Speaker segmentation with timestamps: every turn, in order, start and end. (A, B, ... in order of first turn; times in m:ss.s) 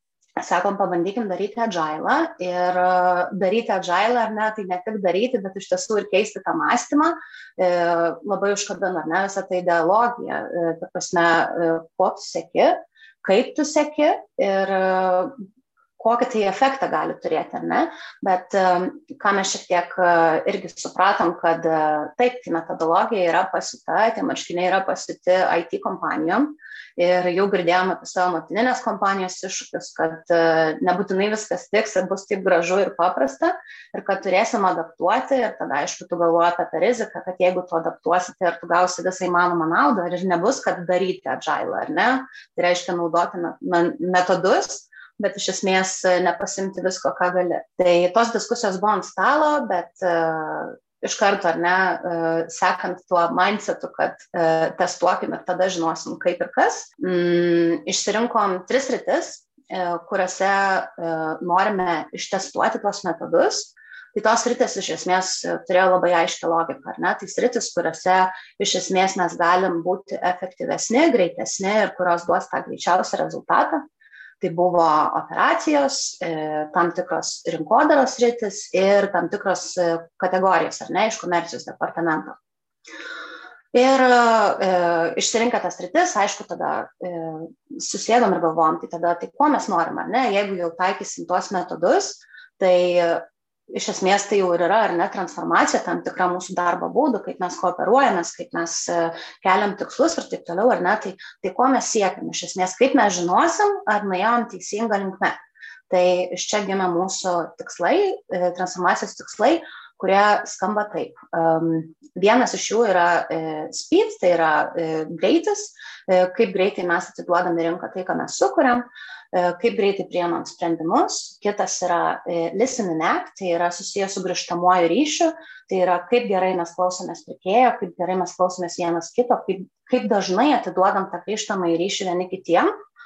0:00.4-0:15.3 A
0:16.0-1:13.8 A
1:14.4-1:22.4 A
1:23.7-1:45.4 A
1:45.9-2:12.7 A